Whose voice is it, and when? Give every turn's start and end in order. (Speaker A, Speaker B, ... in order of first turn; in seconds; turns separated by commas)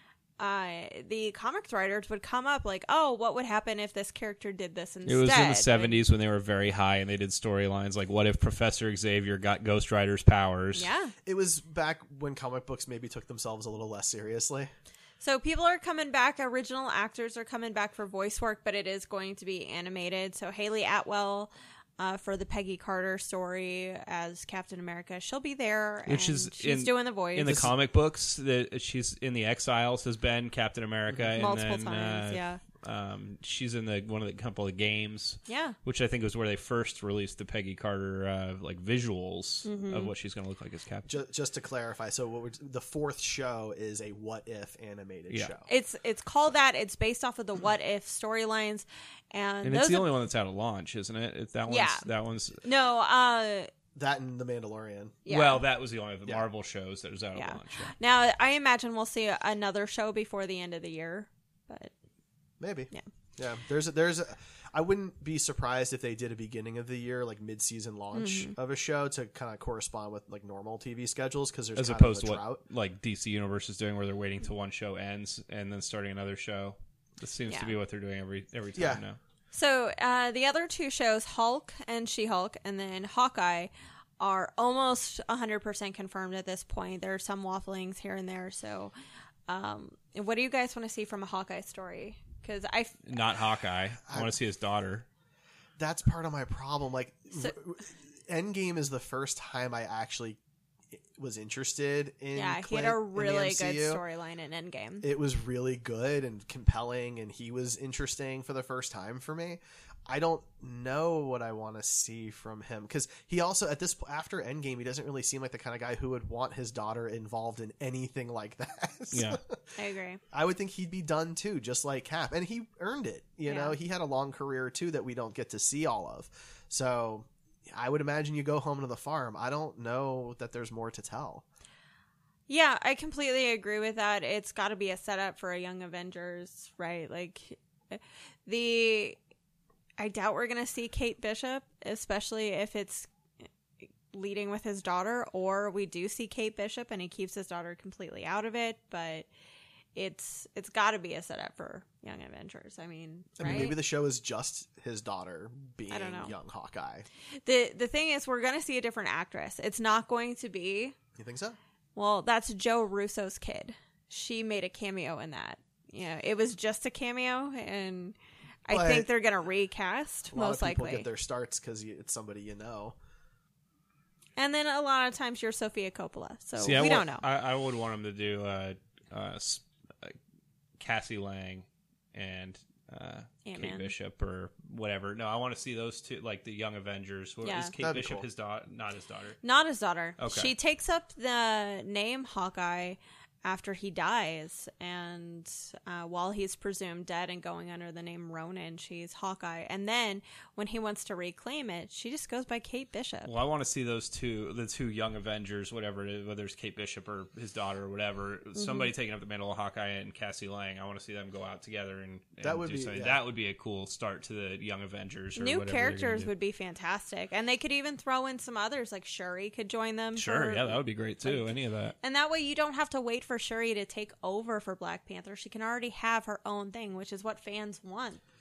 Speaker A: 0.4-6.1, Speaker B: 5.1-10.9, Speaker A: 10.8-11.1, Speaker C: 11.3-14.7, Speaker A: 15.2-27.7, Speaker B: 26.1-41.1, Speaker C: 27.4-27.7, Speaker C: 31.1-31.4, Speaker A: 31.4-32.6, Speaker A: 35.5-35.8, Speaker A: 39.6-40.1, Speaker C: 41.1-45.7, Speaker A: 45.7-50.1, Speaker B: 49.6-52.6, Speaker A: 51.7-52.1, Speaker A: 52.6-53.7, Speaker C: 54.0-55.2, Speaker A: 55.3-55.6, Speaker B: 55.3-58.0, Speaker A: 57.4-61.9, Speaker C: 62.6-72.6, Speaker A: 68.1-68.5, Speaker B: 71.8-79.2, Speaker A: 77.5-77.7, Speaker C: 78.8-79.0, Speaker A: 79.5-88.9, Speaker A: 89.5-93.0, Speaker B: 93.1-95.1, Speaker C: 94.1-94.4, Speaker C: 95.8-100.4, Speaker C: 101.2-104.0, Speaker A: 102.3-105.1, Speaker C: 105.0-119.6, Speaker B: 119.1-119.4, Speaker A: 119.8-120.2, Speaker C: 120.3-131.4, Speaker A: 123.5-123.8, Speaker A: 132.5-139.2, Speaker A: 140.0-143.1, Speaker A: 144.1-149.3, Speaker A: 149.9-153.8, Speaker C: 153.4-157.1, Speaker A: 155.9-156.4, Speaker A: 157.4-160.9, Speaker C: 161.2-161.6, Speaker A: 162.0-171.1, Speaker C: 168.7-169.1, Speaker C: 170.3-173.0, Speaker A: 174.4-177.2, Speaker B: 176.6-180.2, Speaker C: 176.7-177.0, Speaker B: 180.8-189.4, Speaker A: 183.4-183.9, Speaker A: 187.4-187.7, Speaker C: 187.8-188.2, Speaker A: 189.4-203.3, Speaker B: 190.2-190.5, Speaker B: 203.3-216.3, Speaker A: 208.6-208.9, Speaker C: 212.4-213.2, Speaker A: 215.4-228.2, Speaker B: 220.2-221.9